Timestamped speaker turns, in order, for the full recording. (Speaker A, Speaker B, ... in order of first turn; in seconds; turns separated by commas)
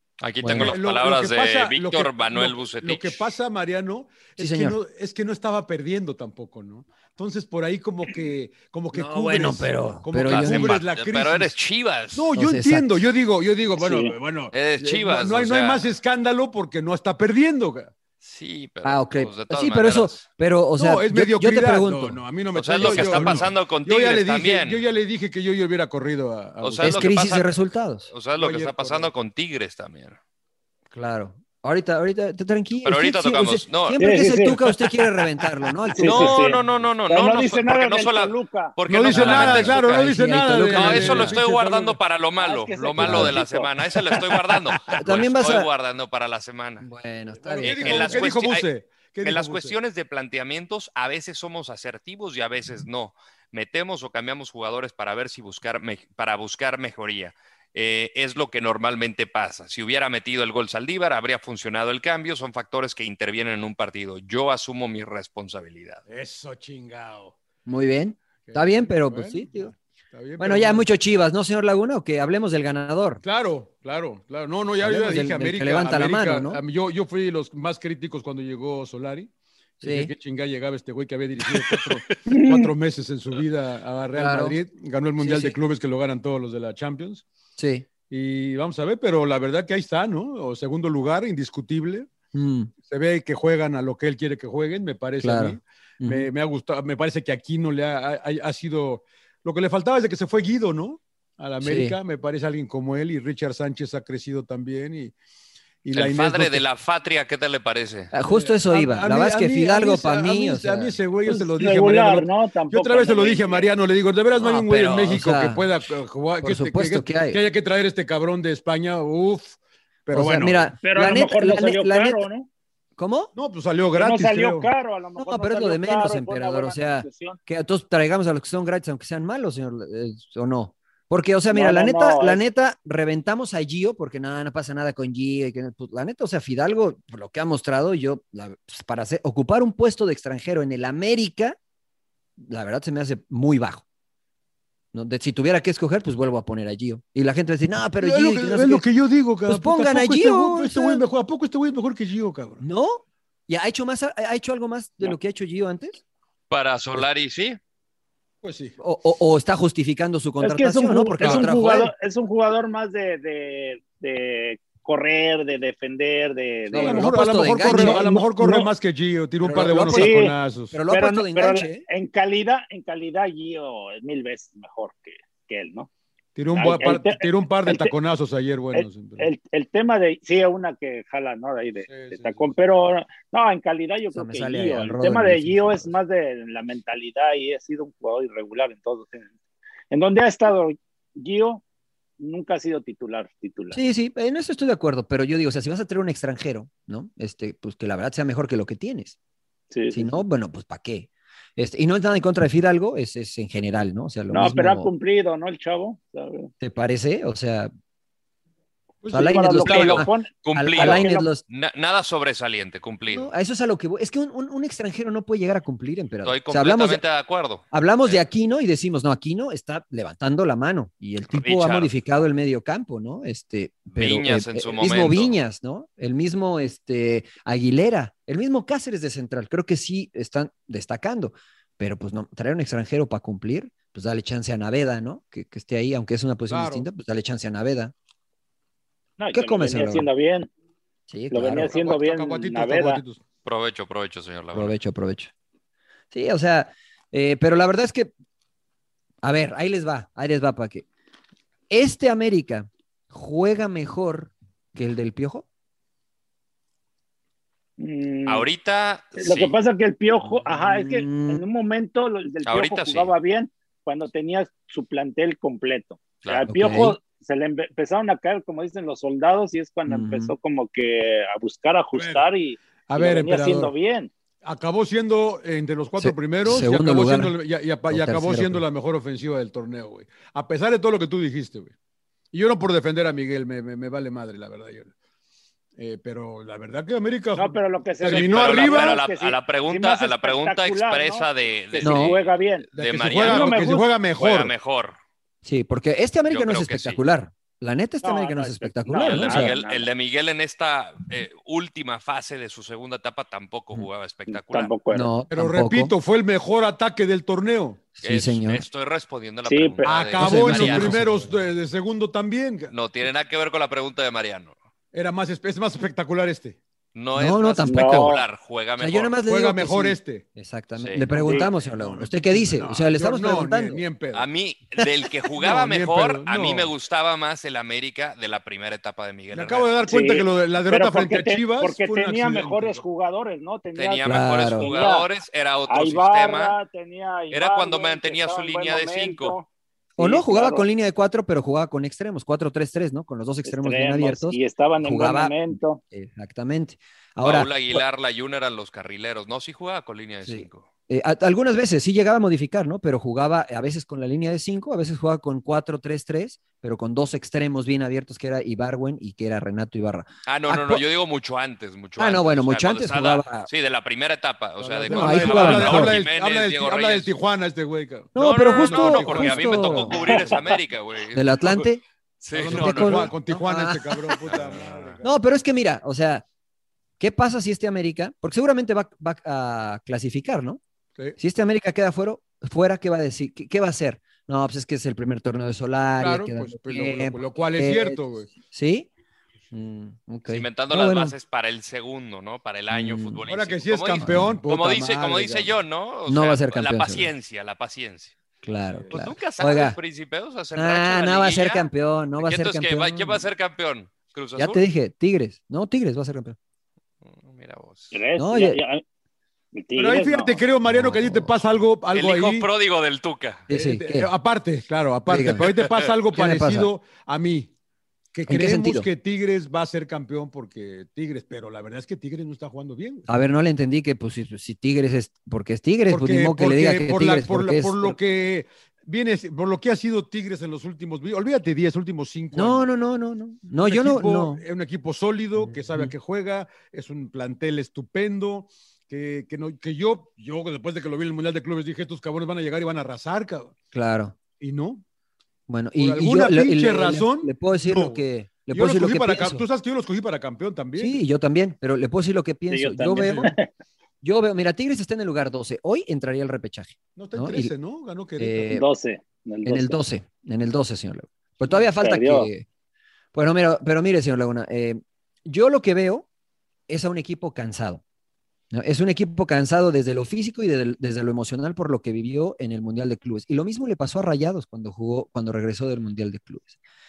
Speaker A: 0.2-3.3, Speaker B: 0.4-0.7, Speaker C: 0.6-11.6, Speaker B: 4.4-4.8, Speaker B: 8.9-10.8, Speaker A: 10.2-12.3, Speaker C: 12.1-17.9, Speaker B: 12.4-13.0, Speaker B: 13.8-14.1, Speaker A: 14.5-15.9, Speaker A: 18.2-20.2, Speaker B: 18.8-22.2, Speaker C: 20.8-27.2, Speaker A: 22.6-24.8, Speaker B: 22.8-23.5, Speaker A: 26.6-27.6, Speaker B: 26.8-28.1, Speaker A: 28.1-30.2, Speaker C: 28.4-29.1, Speaker B: 30.9-36.4, Speaker A: 32.9-34.0, Speaker D: 34.0-34.6, Speaker D: 35.9-38.7, Speaker A: 36.0-40.1, Speaker C: 38.9-42.0, Speaker B: 39.1-41.4, Speaker A: 40.7-46.9, Speaker D: 42.4-44.2, Speaker B: 43.0-43.4, Speaker C: 44.2-44.9, Speaker B: 45.0-45.7, Speaker B: 46.8-48.3, Speaker C: 47.4-49.8, Speaker A: 47.6-48.7, Speaker A: 49.2-66.0, Speaker C: 66.1-67.3, Speaker B: 67.7-69.7, Speaker C: 68.5-70.9, Speaker B: 70.4-73.2, Speaker C: 73.2-87.2, Speaker B: 74.8-76.6, Speaker B: 79.8-80.1, Speaker D: 82.3-82.7, Speaker B: 84.2-84.6, Speaker B: 85.2-85.6, Speaker B: 87.6-87.9, Speaker C: 88.1-92.1, Speaker B: 92.3-92.7, Speaker C: 92.9-105.2, Speaker B: 95.2-96.3, Speaker B: 101.6-102.0, Speaker C: 105.8-106.6, Speaker A: 105.9-108.1, Speaker B: 108.1-111.0, Speaker C: 108.3-120.7, Speaker D: 111.3-113.7, Speaker B: 114.4-115.7, Speaker B: 116.4-117.4, Speaker B: 120.1-122.2, Speaker D: 120.8-122.5, Speaker B: 123.0-123.3, Speaker C: 123.3-124.7, Speaker D: 124.0-127.4, Speaker B: 125.2-141.6, Speaker D: 131.5-132.4, Speaker B: 142.4-143.8, Speaker B: 144.9-148.9, Speaker C: 148.0-152.6, Speaker B: 149.5-151.0, Speaker B: 152.6-156.0, Speaker A: 156.5-157.6, Speaker C: 158.4-158.8, Speaker B: 158.8-161.9, Speaker D: 160.4-168.7, Speaker C: 161.2-161.5, Speaker B: 166.7-168.1, Speaker C: 166.8-170.8, Speaker B: 169.4-170.2, Speaker D: 169.9-170.3, Speaker B: 170.7-171.8, Speaker D: 170.9-175.9, Speaker C: 176.4-179.3, Speaker D: 176.5-177.9, Speaker D: 178.7-189.3, Speaker C: 181.9-182.6, Speaker B: 184.1-186.0, Speaker D: 189.9-191.6, Speaker D: 192.2-193.8, Speaker B: 193.7-199.2, Speaker D: 199.7-200.2, Speaker B: 199.9-204.9, Speaker D: 204.3-206.5, Speaker B: 206.6-207.7, Speaker C: 209.0-209.3, Speaker D: 209.1-211.3, Speaker B: 209.1-211.4, Speaker A: 209.6-213.3, Speaker B: 213.1-217.0, Speaker A: 216.2-218.2, Speaker B: 217.7-237.9, Speaker A: 221.3-221.9, Speaker A: 223.9-225.4, Speaker C: 236.5-236.9, Speaker D: 239.2-240.5, Speaker B: 239.3-240.1, Speaker B: 241.1-241.8, Speaker D: 241.3-243.0, Speaker C: 241.5-243.2, Speaker A: 243.4-244.8, Speaker B: 244.5-245.3, Speaker B: 246.1-248.1, Speaker B: 249.2-250.8, Speaker B: 251.7-255.4, Speaker D: 257.8-258.5, Speaker A: 258.3-259.5, Speaker D: 259.2-274.1, Speaker B: 260.6-261.4, Speaker A: 262.5-263.1, Speaker A: 266.2-266.6, Speaker B: 266.5-267.0, Speaker B: 269.9-270.3, Speaker C: 271.9-272.3, Speaker C: 272.9-273.7, Speaker C: 274.4-281.7, Speaker B: 276.0-277.4, Speaker B: 277.9-278.6, Speaker C: 282.3-284.9, Speaker C: 285.8-289.0, Speaker D: 287.4-292.7, Speaker A: 288.0-295.0, Speaker B: 291.8-292.2, Speaker C: 292.7-294.5, Speaker D: 293.2-293.9, Speaker B: 295.4-299.5, Speaker A: 296.3-297.0, Speaker D: 298.0-299.9, Speaker A: 299.1-304.7, Speaker D: 304.3-305.1, Speaker B: 304.9-305.9, Speaker C: 305.3-307.8, Speaker B: 308.0-308.6, Speaker A: 308.0-311.0, Speaker D: 309.5-310.1, Speaker C: 309.9-312.7, Speaker B: 310.2-311.1, Speaker A: 312.7-314.6, Speaker C: 314.9-316.6, Speaker A: 316.9-319.2, Speaker B: 317.1-318.1, Speaker D: 317.7-318.2, Speaker B: 318.8-323.8, Speaker C: 319.3-320.2, Speaker A: 320.8-321.1, Speaker C: 321.1-324.3, Speaker A: 324.1-329.7, Speaker C: 325.4-326.7, Speaker C: 329.3-332.8, Speaker D: 329.9-335.1, Speaker A: 333.8-336.6, Speaker B: 334.0-334.7, Speaker D: 335.7-340.7, Speaker A: 337.3-339.4, Speaker B: 340.0-347.8, Speaker D: 343.5-345.8, Speaker A: 347.2-350.6, Speaker B: 350.2-360.9, Speaker A: 360.3-367.1, Speaker B: 362.0-363.5, Speaker C: 364.6-370.4, Speaker B: 364.9-366.0, Speaker B: 368.1-370.0, Speaker A: 368.2-371.7, Speaker D: 370.0-370.6, Speaker B: 371.1-371.8, Speaker A: 372.2-373.1, Speaker C: 372.3-375.1, Speaker B: 372.5-374.1, Speaker A: 374.3-375.0, Speaker B: 375.0-376.2, Speaker B: 377.0-380.6, Speaker B: 381.2-388.9, Speaker C: 386.0-388.3, Speaker B: 389.5-391.1, Speaker A: 390.3-398.1, Speaker B: 392.7-393.2, Speaker C: 393.3-395.5, Speaker B: 394.0-394.4, Speaker B: 396.1-397.1, Speaker B: 398.4-399.8, Speaker A: 398.9-401.7, Speaker B: 400.6-403.3, Speaker A: 402.2-404.6, Speaker B: 404.4-406.4, Speaker A: 407.0-408.0, Speaker D: 407.9-408.8, Speaker B: 408.2-408.6, Speaker D: 409.5-410.4, Speaker C: 409.8-412.5, Speaker B: 410.7-411.3, Speaker A: 411.9-413.4, Speaker B: 413.5-414.1, Speaker C: 413.5-417.5, Speaker B: 415.1-415.4, Speaker A: 415.4-415.9, Speaker B: 416.1-416.7, Speaker C: 418.1-423.1, Speaker B: 418.3-418.9, Speaker B: 423.1-428.0, Speaker C: 425.9-432.7, Speaker B: 432.3-434.4, Speaker C: 433.6-443.5, Speaker B: 435.4-435.9, Speaker B: 443.7-444.1, Speaker C: 444.4-444.8, Speaker B: 445.5-449.4, Speaker C: 445.8-451.0, Speaker B: 450.8-453.3, Speaker D: 452.5-453.5, Speaker C: 453.0-453.3, Speaker B: 454.0-457.5, Speaker C: 457.0-458.5, Speaker B: 458.2-458.7, Speaker D: 458.5-459.8, Speaker B: 459.5-462.5, Speaker D: 461.8-462.3, Speaker B: 463.1-466.1, Speaker B: 466.7-467.8, Speaker B: 468.5-476.6